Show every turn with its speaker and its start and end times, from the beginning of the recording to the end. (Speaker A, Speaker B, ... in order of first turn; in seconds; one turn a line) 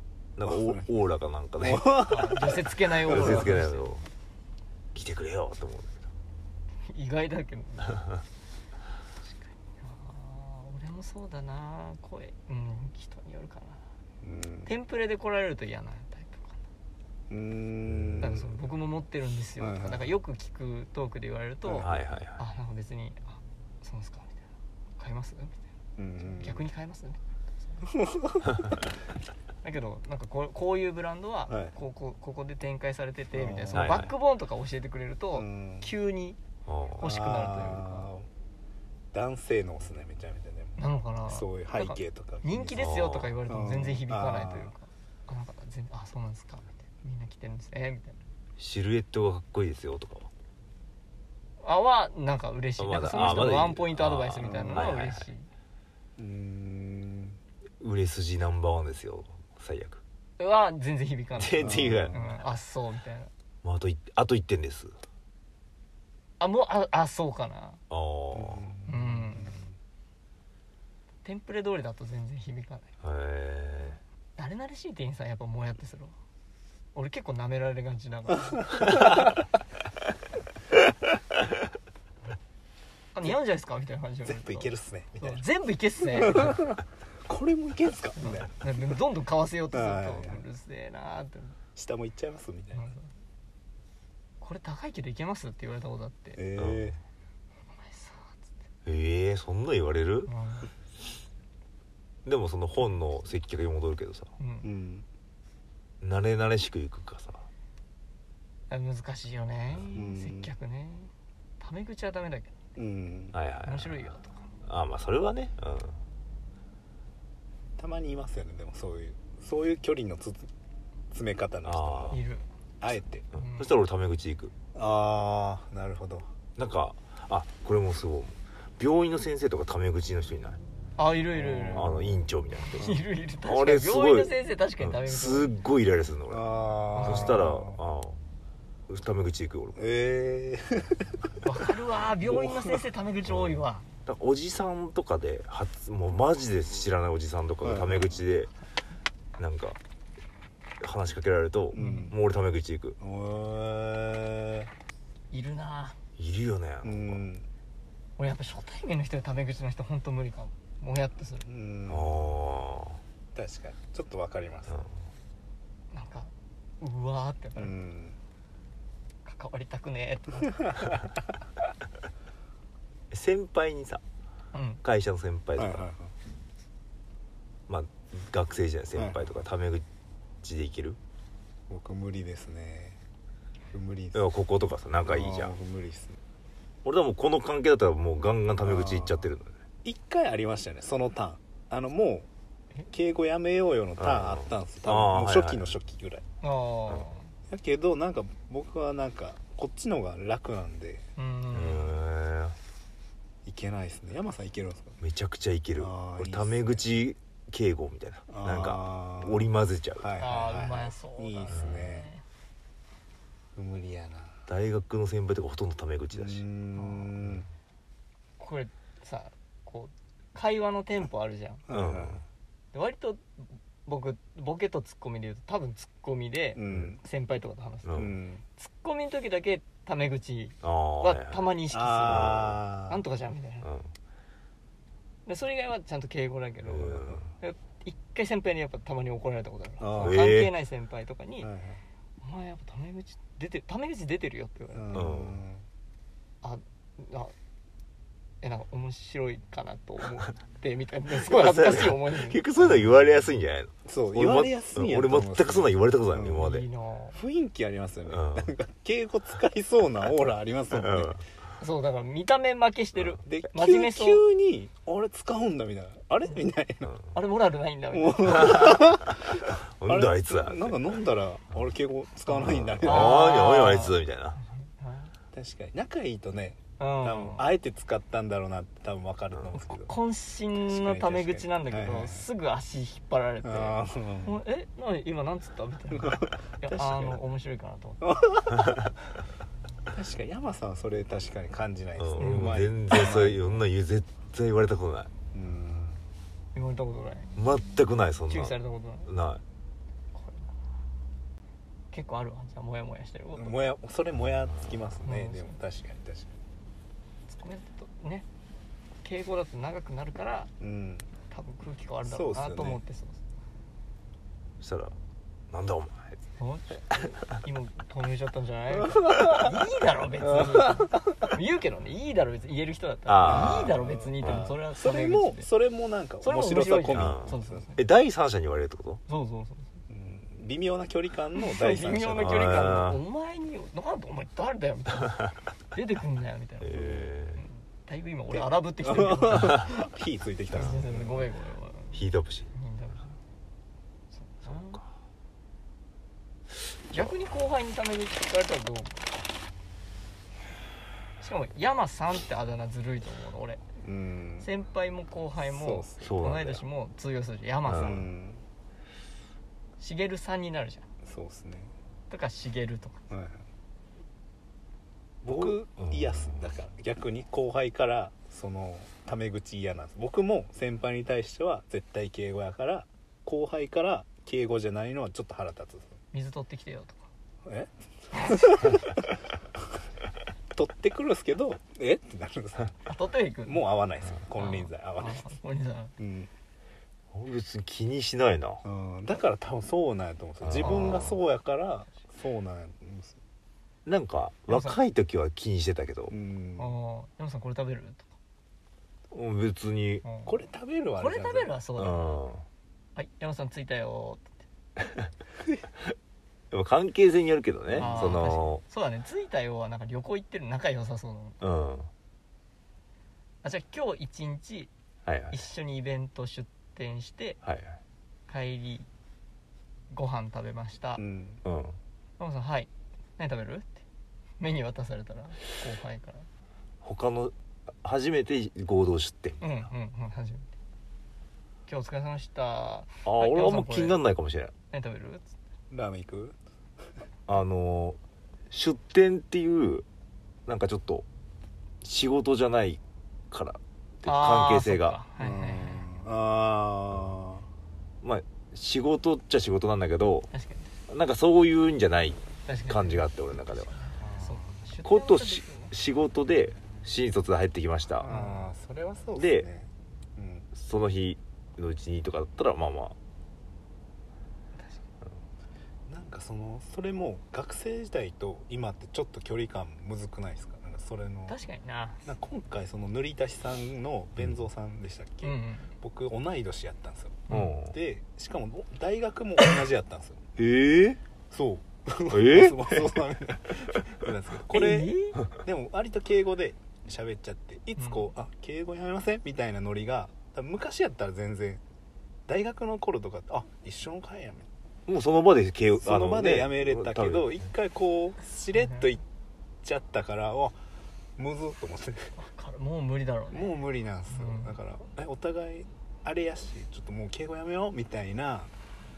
Speaker A: 0.4-2.0
Speaker B: 0.5-0.9
Speaker B: 1.6-3.6
Speaker C: 2.0-4.0
Speaker A: 3.1-4.0
Speaker A: 4.9-6.1
Speaker C: 6.8-8.1
Speaker C: 9.3-13.8
Speaker B: 14.2-14.7
Speaker C: 14.7-16.6
Speaker B: 17.3-18.6
Speaker A: 18.0-18.4
Speaker C: 18.2-25.7
Speaker B: 19.6-20.1
Speaker B: 21.6-21.9
Speaker A: 21.8-22.4
Speaker B: 26.0-26.6
Speaker C: 26.2-27.9
Speaker B: 27.9-28.6
Speaker C: 29.6-36.4
Speaker B: 31.5-31.8
Speaker B: 33.3-34.1
Speaker A: 33.7-34.1
Speaker B: 35.4-35.9
Speaker A: 36.7-37.0
Speaker C: 37.0-38.1
Speaker B: 37.0-38.3
Speaker B: 39.1-42.9
Speaker C: 40.8-48.2
Speaker A: 42.8-43.4
Speaker B: 43.5-44.7
Speaker A: 48.6-50.3
Speaker C: 51.6-55.5
Speaker A: 52.8-55.3
Speaker B: 54.4-55.0
Speaker B: 56.2-57.4
Speaker A: 57.8-60.0
Speaker C: 60.4-63.3
Speaker A: 61.4-62.2
Speaker B: 61.6-62.4
Speaker A: 63.6-64.9
Speaker C: 66.4-67.8
Speaker A: 67.9-68.7
Speaker B: 68.3-69.7
Speaker C: 68.9-69.6
Speaker C: 71.2-72.9
Speaker A: 73.0-74.0
Speaker C: 74.4-76.2
Speaker C: 77.0-79.3
Speaker B: 78.8-79.3
Speaker C: 83.1-86.7
Speaker B: 84.2-85.4
Speaker B: 86.1-88.9
Speaker C: 88.2-91.6
Speaker B: 89.7-90.4
Speaker B: 91.8-92.9
Speaker C: 92.8-93.1
Speaker C: 94.4-96.4
Speaker B: 96.3-97.0
Speaker A: 96.6-97.0
Speaker C: 97.7-98.5
Speaker A: 98.8-100.3
Speaker C: 100.3-100.7
Speaker A: 102.2-104.3
Speaker C: 104.4-104.7
Speaker B: 104.6-105.1
Speaker A: 106.0-107.5
Speaker C: 108.7-112.6
Speaker B: 109.9-110.5
Speaker B: 112.8-113.3
Speaker A: 113.3-114.1
Speaker C: 113.7-114.5
Speaker A: 114.6-116.0
Speaker B: 117.8-120.5
Speaker B: 121.1-122.2
Speaker A: 121.6-122.2
Speaker C: 122.1-122.5
Speaker B: 122.8-123.2
Speaker A: 123.3-124.5
Speaker C: 123.3-123.7
Speaker B: 124.7-126.3
Speaker A: 126.6-130.6
Speaker C: 131.0-132.0
Speaker B: 131.4-132.2
Speaker A: 131.7-138.2
Speaker C: 132.7-135.6
Speaker B: 136.3-137.8
Speaker C: 136.9-137.4
Speaker A: 138.9-139.9
Speaker B: 139.8-141.3
Speaker C: 141.4-143.8
Speaker B: 142.2-142.8
Speaker A: 143.3-148.5
Speaker B: 147.6-148.2
Speaker A: 149.4-149.8
Speaker A: 150.8-153.0
Speaker B: 151.7-152.2
Speaker C: 151.8-152.1
Speaker B: 153.0-154.7
Speaker C: 155.3-156.0
Speaker A: 156.2-157.2
Speaker B: 156.8-157.5
Speaker C: 158.2-161.5
Speaker B: 161.4-162.2
Speaker A: 161.9-163.0
Speaker B: 163.3-164.8
Speaker C: 165.9-167.8
Speaker B: 167.6-168.2
Speaker C: 169.2-170.7
Speaker B: 170.7-171.0
Speaker A: 173.1-174.0
Speaker C: 174.5-174.8
Speaker A: 174.8-175.9
Speaker B: 175.6-176.1
Speaker A: 177.7-179.8
Speaker A: 180.4-181.0
Speaker B: 181.7-183.0
Speaker B: 183.7-184.2
Speaker A: 184.1-185.5
Speaker B: 185.1-186.2
Speaker A: 186.8-189.5
Speaker B: 188.6-189.3
Speaker B: 189.8-192.3
Speaker B: 192.9-196.2
Speaker A: 194.0-195.7
Speaker C: 196.4-197.3
Speaker B: 197.5-201.1
Speaker C: 201.2-202.0
Speaker A: 201.5-202.6
Speaker B: 203.4-205.0
Speaker A: 205.0-210.1
Speaker B: 205.8-206.8
Speaker B: 208.3-212.1
Speaker C: 210.2-212.2
Speaker B: 213.6-214.4
Speaker A: 214.5-216.4
Speaker B: 216.1-217.5
Speaker C: 216.8-217.1
Speaker C: 218.4-221.6
Speaker B: 221.7-222.2
Speaker A: 221.7-222.2
Speaker C: 222.7-233.7
Speaker B: 226.6-227.0
Speaker A: 227.9-228.1
Speaker B: 228.0-228.4
Speaker A: 230.6-231.5
Speaker B: 231.7-233.0
Speaker A: 232.1-232.6
Speaker A: 233.6-233.9
Speaker C: 235.3-241.5
Speaker A: 236.7-237.3
Speaker B: 239.8-240.2
Speaker A: 240.0-240.5
Speaker B: 241.4-241.8
Speaker C: 242.2-245.0
Speaker B: 244.7-245.7
Speaker A: 244.9-245.4
Speaker C: 246.4-247.3
Speaker C: 248.4-252.4
Speaker A: 251.1-256.7
Speaker B: 252.6-253.0
Speaker B: 253.8-256.5
Speaker C: 256.4-257.2
Speaker B: 257.1-261.1
Speaker A: 258.1-258.5
Speaker A: 260.8-261.2
Speaker C: 261.6-264.2
Speaker B: 263.3-266.9
Speaker C: 267.1-268.9
Speaker B: 267.9-273.4
Speaker A: 268.5-270.9
Speaker A: 272.4-274.4
Speaker C: 272.8-274.0
Speaker C: 274.5-275.1
Speaker B: 275.3-279.9
Speaker C: 276.8-277.5
Speaker C: 279.7-288.2
Speaker B: 280.7-282.3
Speaker B: 283.4-284.4
Speaker B: 285.9-287.2
Speaker B: 288.0-288.9
Speaker B: 289.9-293.6
Speaker A: 292.0-295.1
Speaker C: 292.2-292.6
Speaker B: 295.3-296.0
Speaker C: 296.5-297.4
Speaker A: 297.4-298.6
Speaker C: 298.3-299.1
Speaker A: 299.1-299.4
Speaker C: 300.1-300.6
Speaker C: 301.9-303.6
Speaker B: 303.4-306.4
Speaker C: 305.1-305.6
Speaker C: 307.3-308.3
Speaker C: 309.0-310.5
Speaker B: 310.6-311.1
Speaker C: 311.3-313.2
Speaker B: 312.1-312.8
Speaker A: 314.6-314.9
Speaker A: 315.5-316.2
Speaker C: 316.4-325.5
Speaker B: 318.8-319.5
Speaker B: 320.2-321.0
Speaker A: 323.1-324.5
Speaker B: 323.3-327.6
Speaker C: 326.2-327.8
Speaker A: 326.9-329.0
Speaker C: 329.1-329.8
Speaker B: 329.9-332.8
Speaker C: 331.4-339.8
Speaker A: 332.2-333.0
Speaker A: 336.6-337.4
Speaker B: 338.3-341.2
Speaker C: 340.5-343.2
Speaker A: 341.9-342.5
Speaker C: 344.1-344.8
Speaker A: 344.5-344.8
Speaker C: 346.9-349.1
Speaker C: 351.2-353.6
Speaker B: 353.8-354.5
Speaker C: 354.4-358.1
Speaker B: 355.4-356.2
Speaker A: 356.0-356.6
Speaker A: 357.7-358.0
Speaker B: 357.8-358.4
Speaker C: 359.8-360.9
Speaker B: 361.0-361.7
Speaker C: 362.1-363.1
Speaker B: 363.1-363.4
Speaker B: 365.2-376.0
Speaker A: 365.3-366.4
Speaker C: 376.1-377.1
Speaker B: 377.4-379.1
Speaker B: 380.5-382.8
Speaker C: 382.9-383.7
Speaker B: 383.4-385.3
Speaker C: 384.4-385.9
Speaker B: 386.0-386.3
Speaker A: 387.1-388.6
Speaker B: 388.6-393.2
Speaker A: 390.4-391.2
Speaker C: 390.6-391.1
Speaker A: 393.9-396.1
Speaker C: 394.5-394.8
Speaker B: 396.1-396.7
Speaker C: 396.6-398.1
Speaker A: 399.1-400.0
Speaker C: 400.0-400.4
Speaker B: 400.3-401.5
Speaker C: 401.0-402.2
Speaker A: 401.8-402.4
Speaker C: 403.0-404.4
Speaker A: 406.5-408.6
Speaker B: 407.7-408.2
Speaker C: 407.7-411.4
Speaker A: 411.4-411.9
Speaker C: 413.4-414.7
Speaker A: 415.1-415.4
Speaker C: 415.3-417.4
Speaker A: 417.4-417.8
Speaker C: 418.3-418.9
Speaker C: 419.9-421.0
Speaker B: 421.0-421.4
Speaker A: 421.4-421.8
Speaker C: 422.2-423.9
Speaker C: 424.4-426.3
Speaker A: 426.8-429.4
Speaker C: 429.4-430.5
Speaker C: 431.7-434.0
Speaker A: 433.1-434.5
Speaker C: 434.7-435.3
Speaker B: 435.7-436.4
Speaker A: 437.3-438.0
Speaker A: 438.5-439.9
Speaker A: 440.5-441.1
Speaker A: 441.8-442.8
Speaker A: 443.3-445.0
Speaker C: 444.1-445.9
Speaker B: 445.2-447.5
Speaker A: 448.0-450.3
Speaker C: 450.3-450.7
Speaker A: 450.9-453.8
Speaker C: 452.5-455.7
Speaker B: 454.0-454.6
Speaker A: 454.8-458.1
Speaker B: 458.0-460.5
Speaker C: 458.1-458.5
Speaker A: 459.2-459.5
Speaker A: 460.5-462.9
Speaker C: 464.6-464.8
Speaker B: 465.9-471.4
Speaker C: 471.3-472.1
Speaker B: 472.1-480.2
Speaker C: 475.2-475.7
Speaker C: 477.3-477.6
Speaker A: 477.3-477.7
Speaker A: 480.4-481.0
Speaker B: 481.3-491.6
Speaker A: 482.1-482.9
Speaker C: 484.5-485.2
Speaker C: 487.8-488.1
Speaker B: 492.3-494.5
Speaker A: 494.9-497.4
Speaker B: 495.8-499.0
Speaker C: 498.6-498.9
Speaker B: 499.6-500.6
Speaker B: 501.2-502.1
Speaker C: 502.2-503.6
Speaker B: 503.3-508.5
Speaker C: 504.1-504.6